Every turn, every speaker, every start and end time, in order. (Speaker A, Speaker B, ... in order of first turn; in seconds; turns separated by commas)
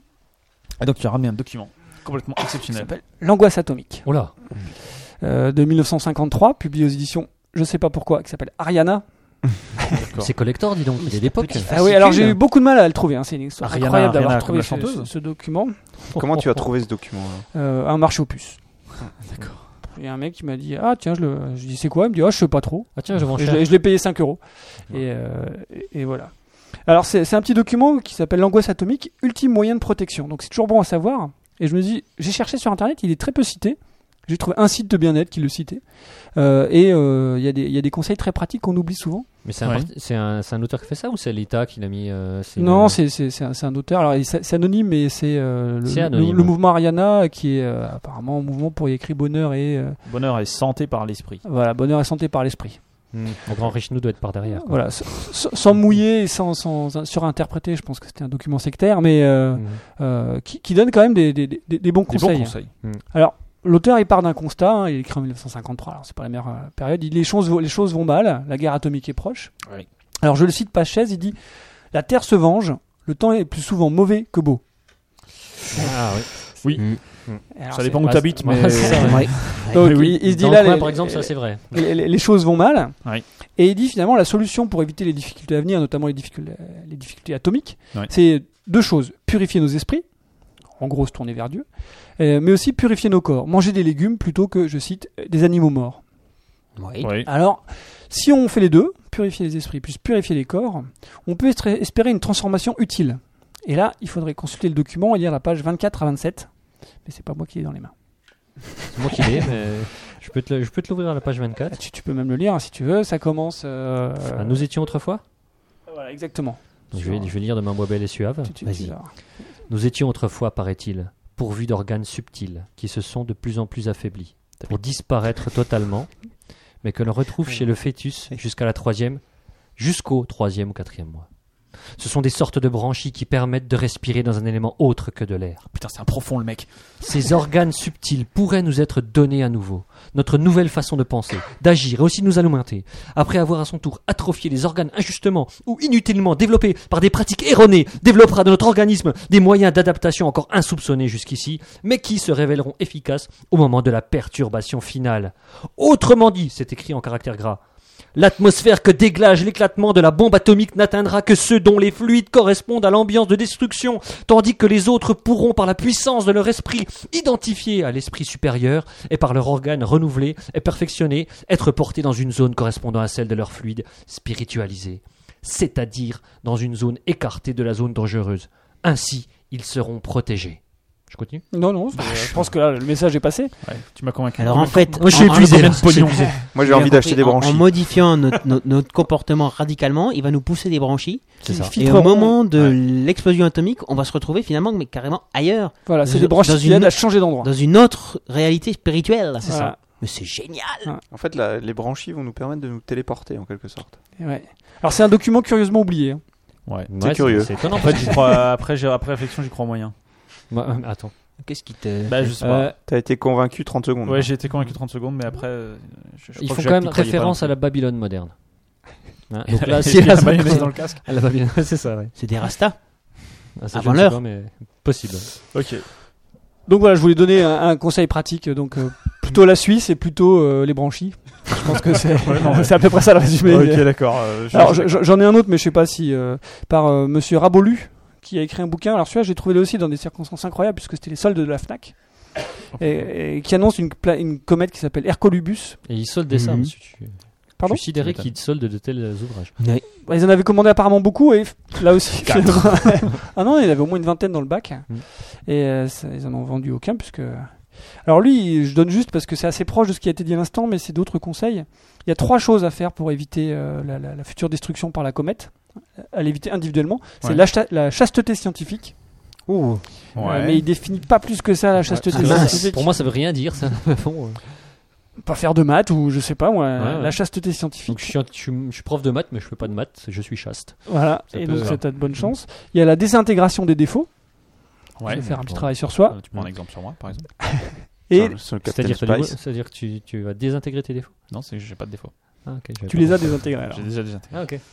Speaker A: 0.8-2.9, Speaker B: 2.7-10.1, Speaker C: 4.0-4.4, Speaker A: 10.0-10.3, Speaker C: 10.2-12.4, Speaker B: 11.2-16.0, Speaker A: 13.6-15.1, Speaker C: 16.1-16.7, Speaker D: 16.1-17.5, Speaker B: 17.5-18.9, Speaker A: 19.2-19.6, Speaker B: 19.8-39.4, Speaker C: 22.9-23.7, Speaker C: 39.4-43.0, Speaker A: 39.6-39.9, Speaker B: 42.6-50.0, Speaker C: 45.9-46.5, Speaker A: 50.0-51.4, Speaker B: 51.4-53.1, Speaker C: 53.1-55.0, Speaker B: 54.5-69.6, Speaker C: 59.5-59.8, Speaker A: 62.1-62.8, Speaker C: 62.8-63.0, Speaker B: 70.1-75.0, Speaker C: 75.7-77.5, Speaker B: 75.7-76.7, Speaker A: 76.6-80.2, Speaker B: 77.5-96.0, Speaker C: 78.0-81.8, Speaker E: 79.0-79.8, Speaker E: 96.8-97.1, Speaker A: 97.0-97.3, Speaker B: 97.1-109.5, Speaker C: 108.9-111.8, Speaker B: 111.7-114.7, Speaker C: 114.3-115.2, Speaker B: 115.9-117.5, Speaker C: 116.9-118.8, Speaker B: 118.4-119.2, Speaker E: 118.6-118.9, Speaker C: 119.6-126.2, Speaker C: 126.8-131.3, Speaker C: 132.0-135.6, Speaker A: 135.7-136.9, Speaker C: 137.0-157.6, Speaker C: 158.1-181.5, Speaker B: 181.5-183.8, Speaker A: 181.9-182.6, Speaker A: 183.6-186.3, Speaker E: 184.4-200.9, Speaker C: 184.9-186.3, Speaker D: 186.5-188.1, Speaker C: 191.4-191.8, Speaker B: 191.4-192.4, Speaker B: 195.8-197.5, Speaker B: 199.4-199.8, Speaker C: 199.5-199.7, Speaker D: 201.1-204.0, Speaker B: 204.2-206.3, Speaker A: 206.7-209.9, Speaker C: 206.9-208.3, Speaker D: 206.9-207.6, Speaker C: 210.5-211.1, Speaker E: 211.4-212.4, Speaker A: 212.1-212.7, Speaker C: 212.4-212.7, Speaker B: 212.4-212.7, Speaker D: 212.9-214.3, Speaker A: 214.1-217.6, Speaker C: 216.4-222.1, Speaker A: 219.5-221.1, Speaker E: 222.2-224.2, Speaker C: 223.6-225.3, Speaker A: 225.5-225.9, Speaker B: 226.7-245.8, Speaker A: 232.2-235.0, Speaker A: 242.7-243.1, Speaker C: 245.8-249.6, Speaker E: 246.3-246.7, Speaker B: 247.6-247.8, Speaker A: 247.9-248.3, Speaker E: 249.6-249.9, Speaker B: 250.0-269.0, Speaker A: 252.2-253.1, Speaker E: 269.5-269.9, Speaker A: 270.1-270.7, Speaker B: 270.1-273.2, Speaker C: 271.9-274.4, Speaker E: 272.1-272.7, Speaker B: 275.2-278.2, Speaker C: 276.8-282.3, Speaker B: 280.9-286.3, Speaker A: 281.3-282.3, Speaker A: 285.0-287.3, Speaker C: 285.3-285.7, Speaker B: 287.5-288.5, Speaker D: 288.1-289.4, Speaker C: 288.6-291.1, Speaker A: 291.3-292.7, Speaker C: 292.4-294.6, Speaker B: 292.9-294.4, Speaker A: 293.7-294.6